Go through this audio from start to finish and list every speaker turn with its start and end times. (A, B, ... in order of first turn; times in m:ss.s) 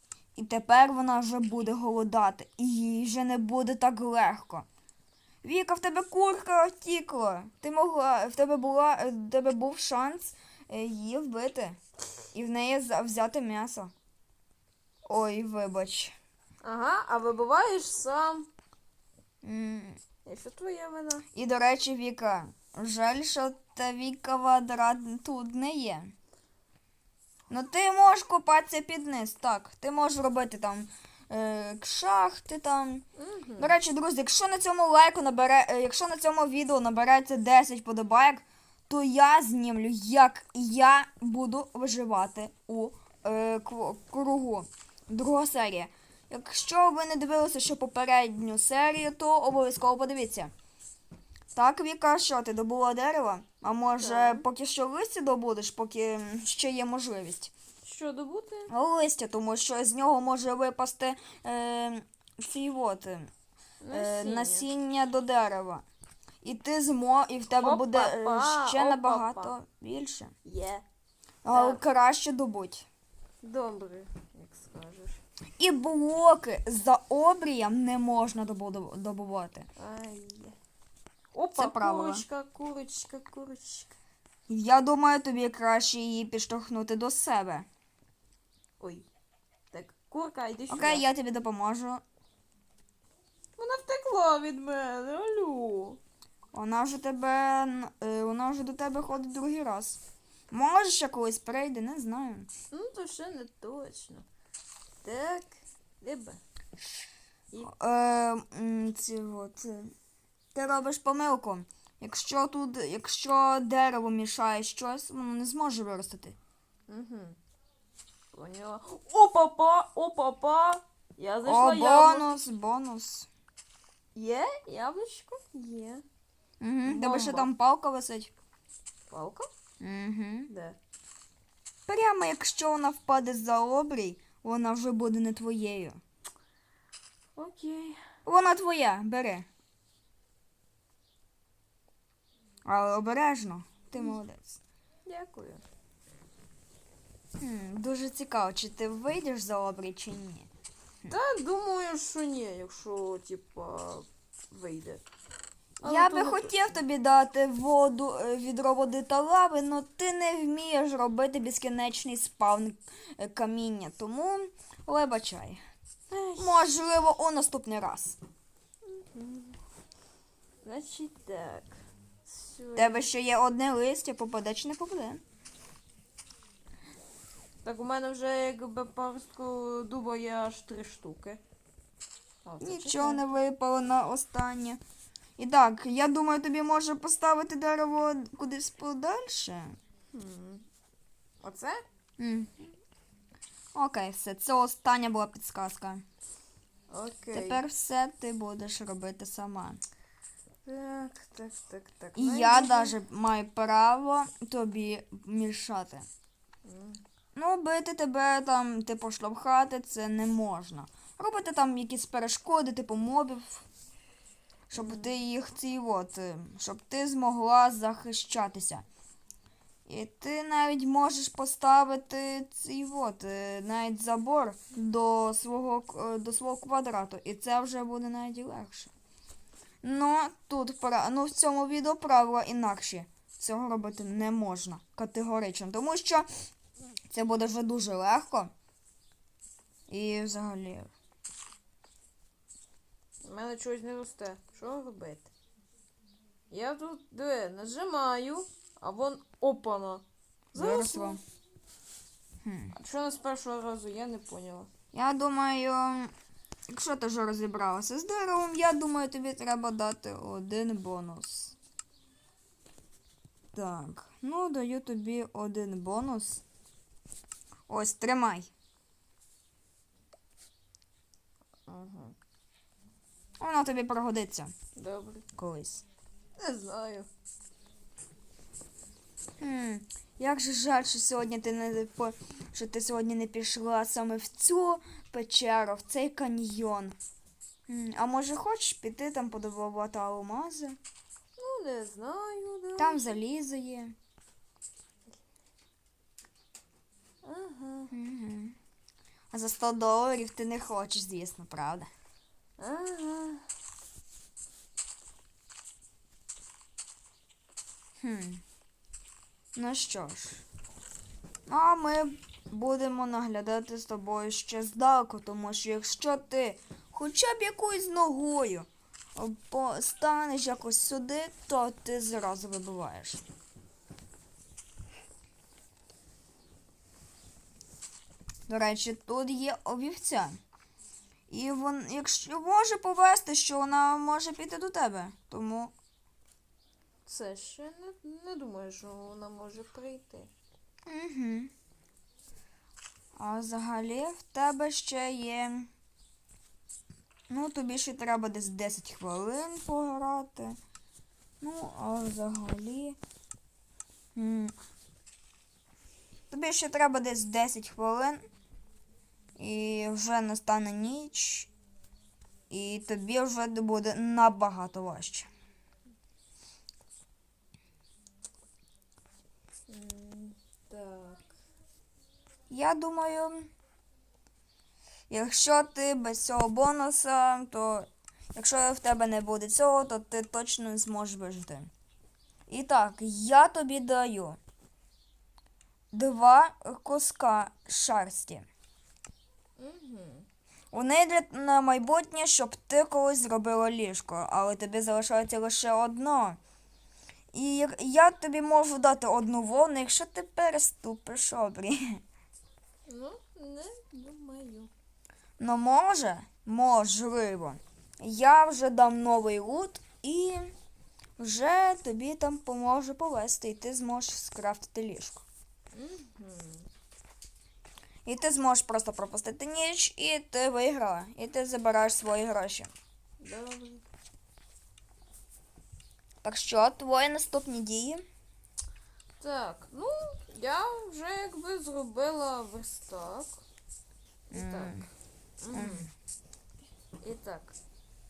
0:00.3-0:04.6 A
0:05.4-0:11.8 A
0:12.3-0:13.9 A
0:15.1-0:16.2 A
0:16.6-0:18.5 B
0:19.4-0:20.0 A
0:20.2-0:21.2 B
0:21.3-0:26.1 A
0:27.5-0:33.0 A
0:33.2-0:33.8 B
0:33.6-0:50.5 A
0:51.5-0:57.5 A
0:54.0-0:54.4 B
0:57.8-0:58.7 B
0:58.7-1:03.3 A
1:03.8-1:04.7 B
1:03.9-1:05.8 A
1:06.4-1:10.3 A
1:07.6-1:09.6 B
1:10.4-1:10.8 B
1:11.4-1:12.8 A
1:11.5-1:11.8 B
1:13.4-1:15.2 B
1:15.6-1:19.7 A
1:19.8-1:20.6 B
1:21.3-1:23.9 B
1:21.6-1:22.2 A
1:24.5-1:27.6 A
1:28.8-1:29.0 B
1:29.7-1:31.0 B
1:30.7-1:32.0 A
1:33.6-1:36.0 B
1:36.5-1:42.5 A
1:42.7-1:44.2 B
1:45.0-1:46.4 B
1:47.6-1:49.9 A
1:50.5-1:56.4 A
1:56.9-1:57.4 B
1:58.3-2:02.4 B
2:01.4-2:03.3 A
2:04.1-2:06.0 B
2:06.6-2:08.3 A
2:06.8-2:07.5 B
2:09.1-2:09.5 B
2:09.8-2:10.5 A
2:10.5-2:10.8 B
2:11.9-2:16.0 A
2:17.4-2:18.0 B
2:18.2-2:19.4 A
2:22.6-2:24.6 A
2:25.0-2:25.6 B
2:27.4-2:30.5 A
2:31.1-2:35.0 B
2:35.8-2:36.7 B
2:35.8-2:45.6 A
2:46.1-2:46.7 B
2:46.4-2:48.2 A
2:48.8-2:49.6 B
2:50.6-2:51.7 B
2:52.2-2:53.0 B
2:52.8-2:55.2 A
2:57.6-3:01.4 B
3:02.4-3:03.2 B
3:02.6-3:04.8 A
3:05.4-3:09.8 A
3:10.1-3:10.6 B
3:11.4-3:11.8 B
3:12.2-3:12.6 A
3:13.7-3:16.0 A
3:16.9-3:17.6 B
3:17.3-3:19.8 A
3:20.6-3:23.0 B
3:22.2-3:26.0 A
3:26.6-3:27.0 B
3:27.3-3:33.6 A
3:34.7-3:38.8 A
3:34.7-3:35.2 B
3:39.9-3:48.9 A
3:49.8-3:56.3 A
3:57.1-3:58.5 A
3:59.9-4:00.9 A
4:03.2-4:05.3 B
4:06.5-4:11.2 B
4:10.5-4:11.2 A
4:12.4-4:12.8 A
4:12.8-4:14.7 B
4:14.9-4:16.1 A
4:16.7-4:21.5 A
4:23.5-4:26.4 A
4:27.7-4:28.5 A
4:31.7-4:32.1 B
4:33.4-4:34.5 A
4:34.8-4:35.2 B
4:35.4-4:35.8 A
4:36.4-4:37.1 B
4:39.4-4:47.0 A
4:47.7-4:50.8 A
4:51.4-4:53.2 B
4:52.8-4:53.9 A
4:57.2-4:57.9 B
4:57.9-4:58.6 A
4:59.3-5:01.9 A
5:02.6-5:03.4 B
5:08.0-5:08.4 A
5:09.6-5:10.4 A
5:11.5-5:23.2 A
5:28.5-5:30.4 A
5:31.3-5:35.7 A
5:37.0-5:40.3 B
5:40.9-5:41.5 A
5:43.2-5:45.7 A
5:47.3-5:50.6 A
5:51.4-5:53.0 A
5:54.2-5:54.5 A
5:56.3-5:58.2 A
5:59.4-6:01.5 A
6:02.5-6:05.3 A
6:09.7-6:11.3 B
6:12.5-6:13.5 A
6:15.1-6:21.7 A
6:22.5-6:24.4 A
6:25.9-6:28.4 A
6:29.6-6:30.2 B
6:30.7-6:36.4 A
6:37.3-6:42.0 A
6:42.9-6:44.7 B
6:45.4-6:50.5 A
6:51.2-6:55.2 A
6:55.7-6:56.7 B
6:58.0-7:02.7 A
7:03.2-7:03.8 B
7:06.2-7:08.0 A
7:09.2-7:13.4 B
7:14.3-7:14.8 B
7:14.3-7:14.9 A
7:15.4-7:15.9 B
7:15.5-7:15.9 A
7:17.0-7:17.6 B